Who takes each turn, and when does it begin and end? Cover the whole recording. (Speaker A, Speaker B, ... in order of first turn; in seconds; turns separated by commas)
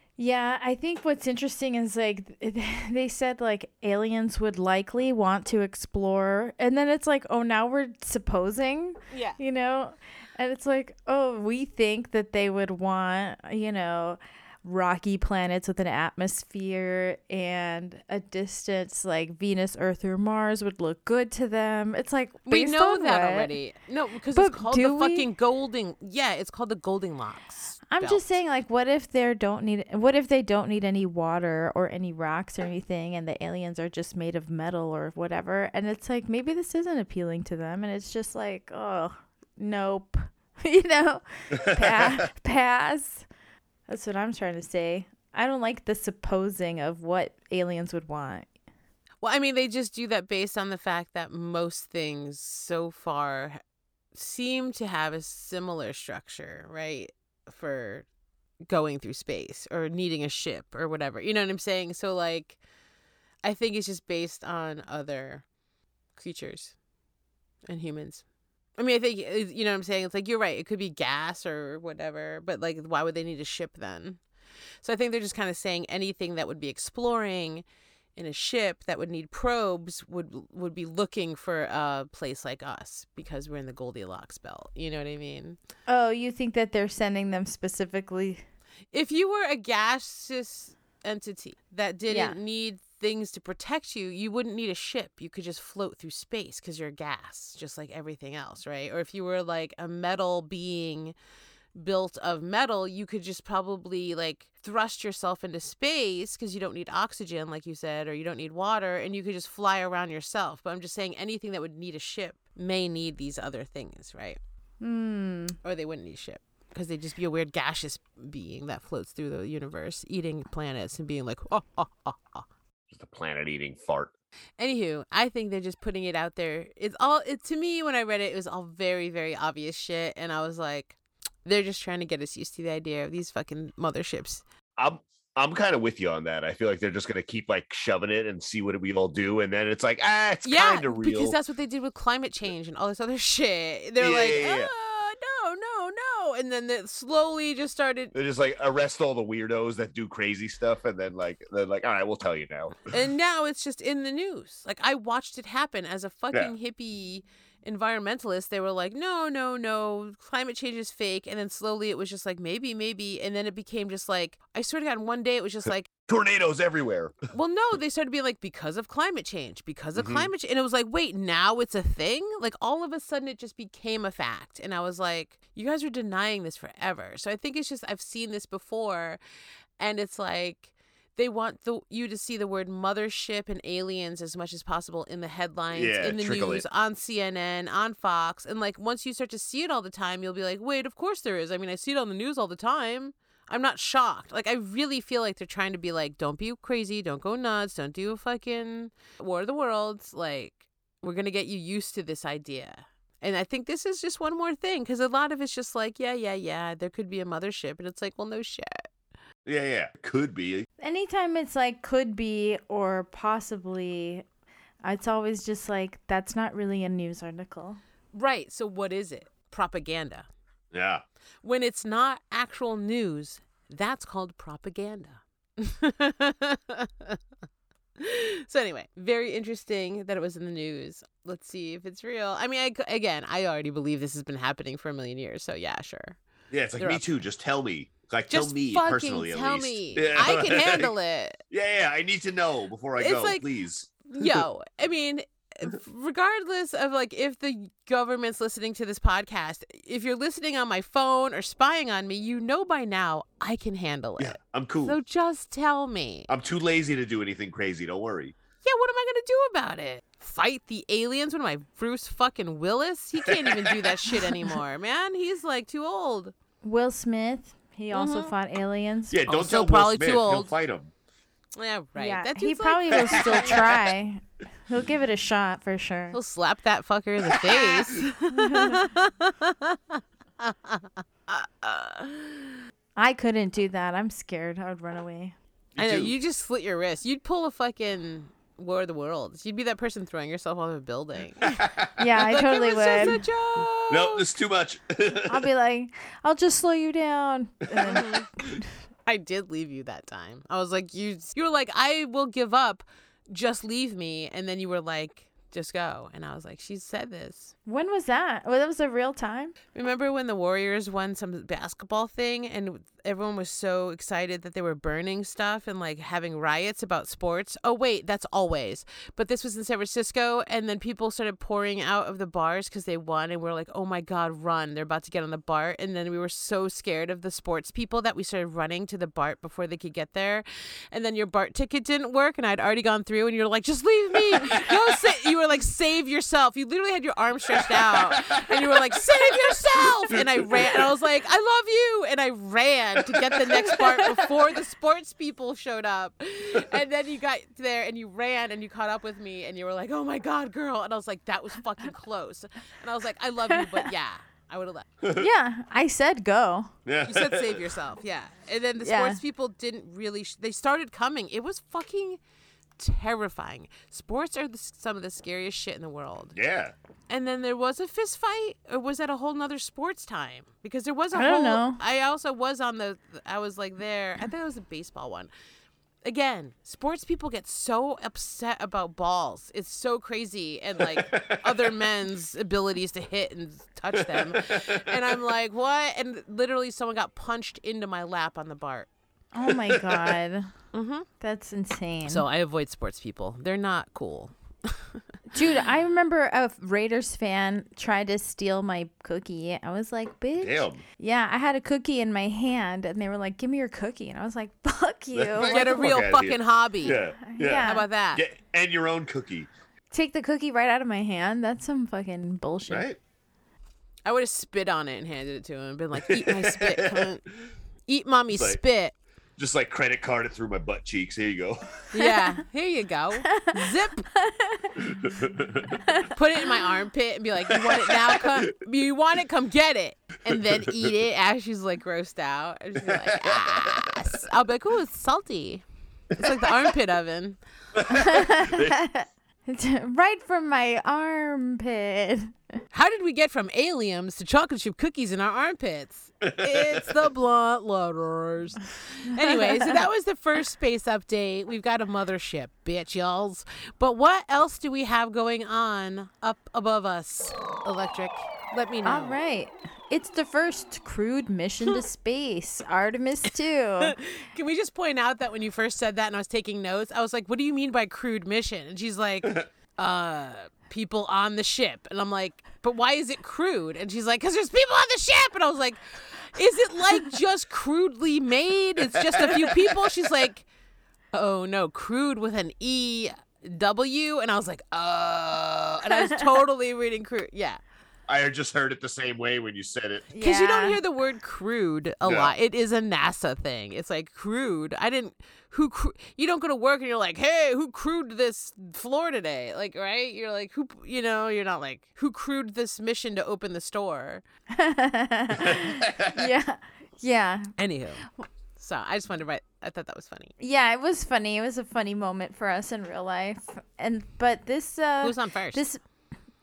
Speaker A: 0.2-23.5, Speaker B: 9.1-9.4, Speaker B: 22.5-28.3, Speaker A: 24.3-25.3, Speaker A: 27.9-43.3, Speaker C: 41.6-42.0, Speaker A: 43.9-48.5, Speaker B: 49.2-53.6, Speaker B: 54.1-58.0, Speaker B: 58.7-62.6, Speaker B: 63.4-65.5, Speaker B: 66.1-66.8, Speaker B: 67.7-68.2, Speaker B: 68.8-74.2, Speaker B: 74.8-77.6, Speaker B: 78.2-85.6, Speaker A: 85.9-88.5, Speaker B: 88.9-101.1, Speaker A: 92.1-92.3, Speaker B: 101.8-114.4, Speaker A: 114.8-115.6, Speaker B: 115.6-122.5, Speaker C: 122.9-124.1, Speaker B: 124.6-134.4, Speaker C: 134.8-141.3, Speaker B: 140.4-148.1, Speaker C: 144.0-144.7, Speaker C: 148.1-152.8, Speaker B: 152.8-165.9, Speaker C: 166.1-167.2, Speaker B: 167.3-179.2, Speaker C: 170.0-170.3, Speaker B: 179.8-208.9, Speaker C: 185.7-186.6, Speaker C: 209.5-210.7, Speaker A: 210.8-214.2, Speaker A: 214.8-217.8, Speaker B: 218.1-220.3, Speaker C: 220.7-221.0, Speaker B: 221.4-227.2, Speaker B: 228.0-236.2, Speaker C: 236.5-240.9, Speaker B: 238.3-241.4, Speaker C: 241.5-244.4, Speaker B: 243.0-243.5, Speaker B: 244.1-256.3, Speaker C: 254.2-255.0, Speaker C: 256.3-258.3, Speaker B: 258.6-266.3, Speaker C: 263.3-263.9, Speaker A: 266.6-269.1, Speaker B: 267.9-268.3, Speaker C: 269.1-270.9, Speaker B: 269.3-270.5, Speaker B: 271.5-273.6, Speaker A: 272.0-276.2, Speaker C: 272.9-273.8, Speaker B: 276.1-282.6, Speaker A: 277.5-278.8, Speaker A: 283.0-285.3, Speaker C: 285.8-286.1, Speaker B: 285.8-291.5, Speaker C: 291.4-291.9, Speaker A: 292.0-293.2, Speaker B: 292.2-294.2, Speaker C: 293.9-295.5, Speaker A: 295.3-298.6, Speaker B: 297.8-298.3, Speaker B: 299.1-307.5, Speaker A: 307.6-309.5, Speaker B: 309.8-354.9, Speaker C: 334.3-335.1, Speaker C: 337.6-340.9, Speaker C: 343.0-343.4, Speaker A: 353.6-353.8, Speaker A: 355.1-356.7, Speaker C: 356.9-357.7, Speaker B: 357.1-362.2, Speaker A: 358.8-359.2, Speaker B: 362.8-366.3, Speaker C: 366.3-366.7, Speaker B: 367.1-375.3, Speaker A: 371.1-371.8, Speaker B: 376.0-388.9, Speaker C: 380.8-381.6, Speaker C: 383.9-385.1, Speaker A: 389.3-390.5, Speaker C: 389.4-390.2, Speaker B: 390.7-391.1, Speaker A: 391.2-392.2, Speaker B: 392.1-395.0, Speaker A: 395.3-405.9, Speaker C: 400.4-400.8, Speaker C: 405.1-409.5, Speaker B: 405.4-407.0, Speaker A: 407.2-407.9, Speaker B: 407.5-408.2, Speaker A: 409.9-412.9, Speaker C: 412.7-413.0, Speaker B: 414.0-417.3, Speaker C: 416.0-417.1, Speaker B: 417.9-418.9, Speaker C: 418.3-418.6, Speaker C: 419.4-421.8, Speaker B: 421.9-424.1, Speaker A: 423.2-424.8, Speaker C: 424.8-425.8, Speaker B: 426.1-437.4, Speaker C: 427.5-428.4, Speaker C: 430.3-430.9, Speaker C: 432.8-433.9, Speaker C: 436.2-436.5, Speaker C: 437.8-438.8, Speaker A: 437.9-442.4, Speaker B: 442.7-459.2, Speaker C: 446.2-446.9, Speaker A: 449.2-449.8, Speaker A: 458.8-463.9, Speaker B: 463.8-480.5, Speaker C: 479.2-479.6, Speaker B: 481.1-487.6, Speaker A: 485.9-486.3, Speaker C: 488.1-490.1, Speaker A: 490.1-490.8, Speaker B: 490.2-504.2, Speaker C: 492.0-492.3, Speaker A: 504.5-507.5, Speaker C: 505.4-506.2, Speaker B: 507.6-510.3, Speaker A: 510.4-515.8, Speaker B: 515.0-515.6